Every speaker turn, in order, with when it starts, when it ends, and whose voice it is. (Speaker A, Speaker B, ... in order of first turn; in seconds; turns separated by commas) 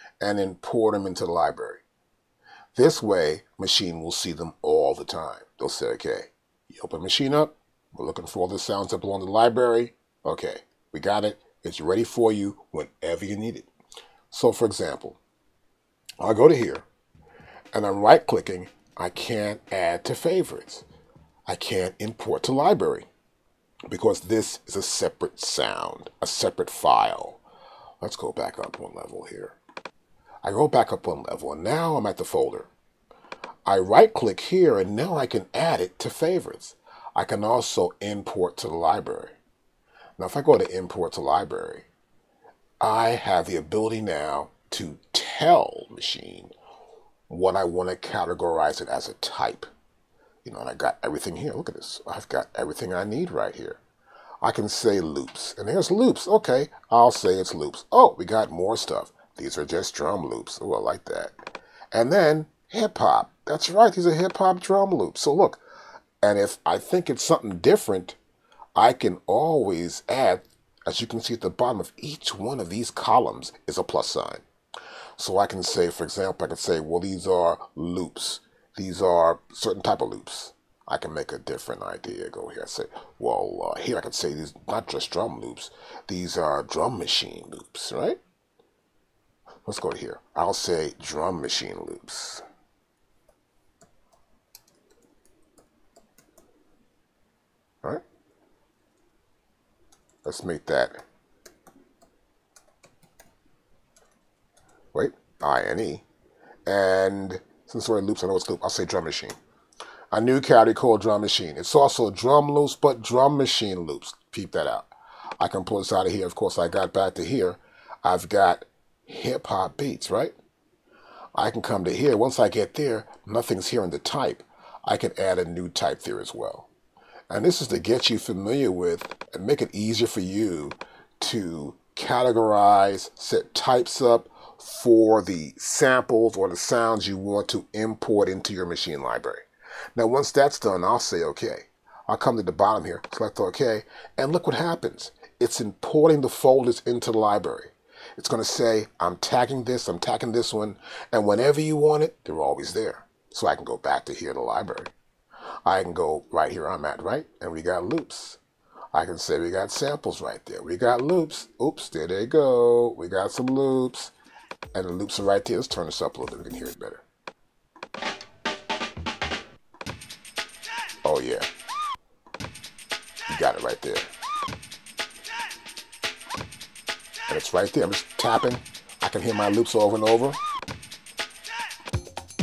Speaker A: 0.2-1.8, Speaker A: 2.7-13.7, Speaker A: 14.3-15.2, Speaker A: 16.2-16.9, Speaker A: 17.7-20.8, Speaker A: 21.5-23.1, Speaker A: 23.9-27.4, Speaker A: 28.0-29.6, Speaker A: 30.4-32.7, Speaker A: 33.6-39.3, Speaker A: 40.2-41.9, Speaker A: 42.8-46.5, Speaker A: 47.3-49.7, Speaker A: 50.4-53.8, Speaker A: 54.4-65.6, Speaker A: 66.2-68.2, Speaker A: 68.8-74.4, Speaker A: 75.2-88.2, Speaker A: 89.6-92.4, Speaker A: 100.2-101.0, Speaker A: 104.9-106.0, Speaker A: 106.7-109.3, Speaker A: 110.1-120.3, Speaker A: 121.3-126.7, Speaker A: 127.3-154.9, Speaker A: 155.6-158.4, Speaker A: 158.9-164.1, Speaker A: 164.7-167.0, Speaker A: 171.0-171.5, Speaker A: 173.3-174.1, Speaker A: 177.3-180.4